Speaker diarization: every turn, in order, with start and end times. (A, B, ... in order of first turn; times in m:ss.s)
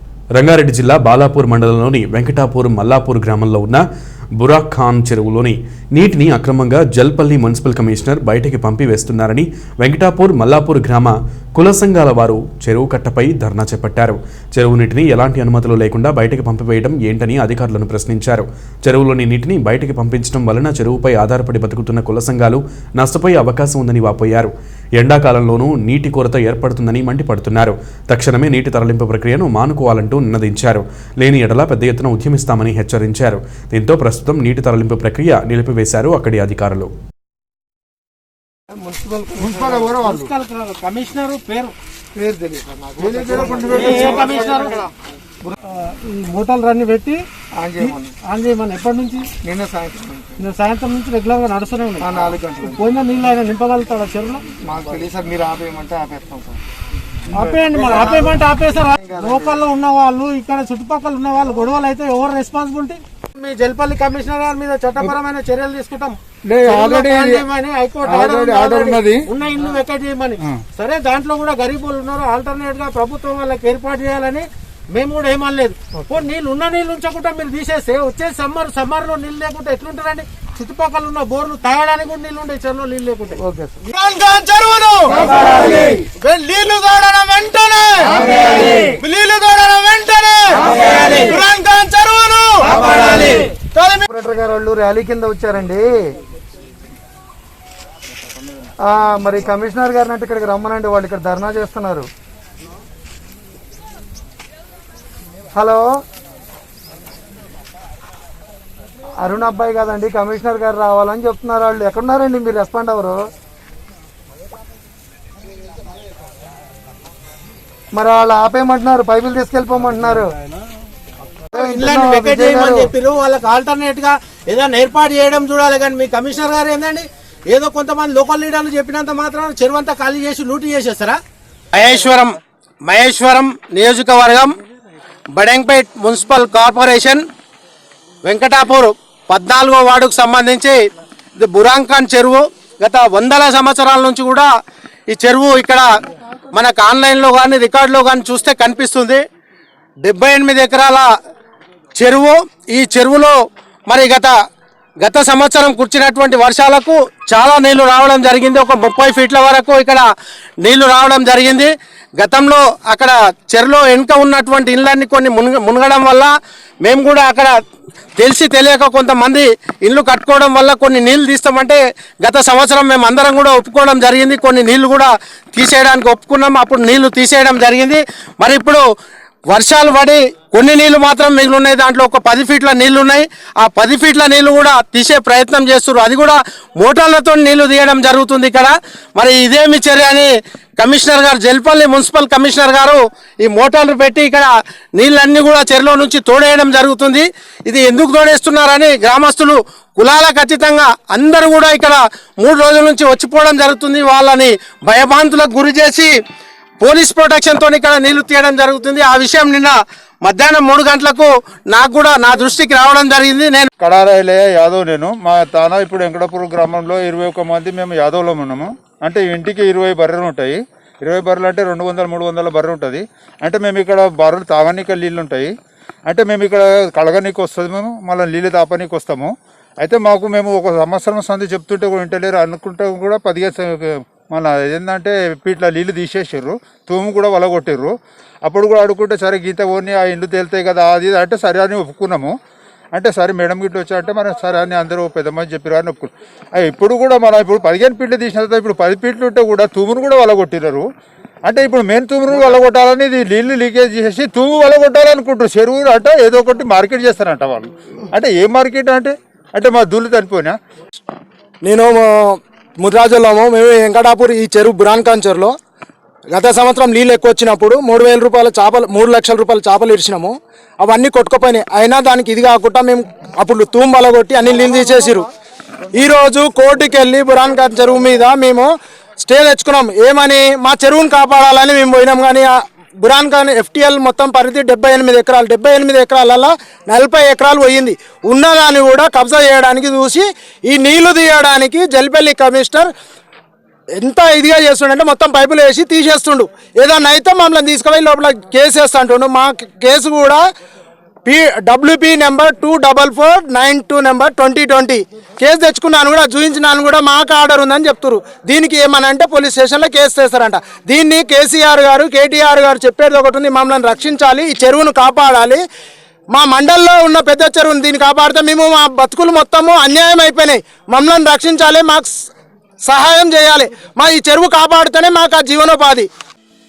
0:00.3-0:03.8 A
0:04.4-0:36.9 A
0:38.8-0:39.9 B
0:39.4-0:40.3 C
0:40.0-0:41.7 D
0:42.2-0:44.6 B
0:43.0-0:44.8 C
0:43.7-0:44.7 D
0:45.7-0:47.2 D
0:47.6-0:48.1 B
0:47.8-0:49.3 D
0:49.4-0:50.4 B
0:50.4-0:52.0 D
0:52.0-0:52.8 B
0:52.7-0:54.4 D
0:54.6-0:56.6 B
0:57.3-0:58.4 B
0:57.4-1:32.7 D
0:58.9-0:59.6 B
1:06.4-1:07.4 C
1:08.0-1:09.2 C
1:23.4-1:23.8 B
1:32.7-1:33.4 E
1:33.6-1:34.0 D
1:34.1-1:35.8 B
1:38.9-1:42.1 B
1:45.5-1:45.9 B
1:49.2-1:53.2 B
1:57.9-2:00.3 B
2:01.5-2:11.2 D
2:01.5-2:02.9 B
2:11.7-2:14.5 E
2:15.3-2:17.2 E
2:18.2-2:20.8 E
2:21.4-2:24.5 E
2:25.1-2:25.9 E
2:26.5-2:29.2 E
2:30.0-2:31.1 E
2:31.9-2:33.3 E
2:33.9-2:34.3 E
2:35.0-2:40.0 E
2:40.6-2:46.3 E
2:46.8-2:47.5 E
2:48.2-2:58.8 E
2:59.5-3:26.1 E
3:26.8-3:33.7 E
3:33.8-3:45.5 C
3:46.1-3:57.9 C
3:58.4-4:02.3 C
4:02.9-4:10.8 C
4:11.4-4:20.5 C
4:21.6-4:25.5 F
4:26.3-4:35.3 F
4:35.9-4:38.7 F
4:39.2-4:52.9 F
4:54.0-5:00.4 F
5:01.2-5:15.6 F
5:16.3-5:22.2 F
5:22.8-5:26.1 F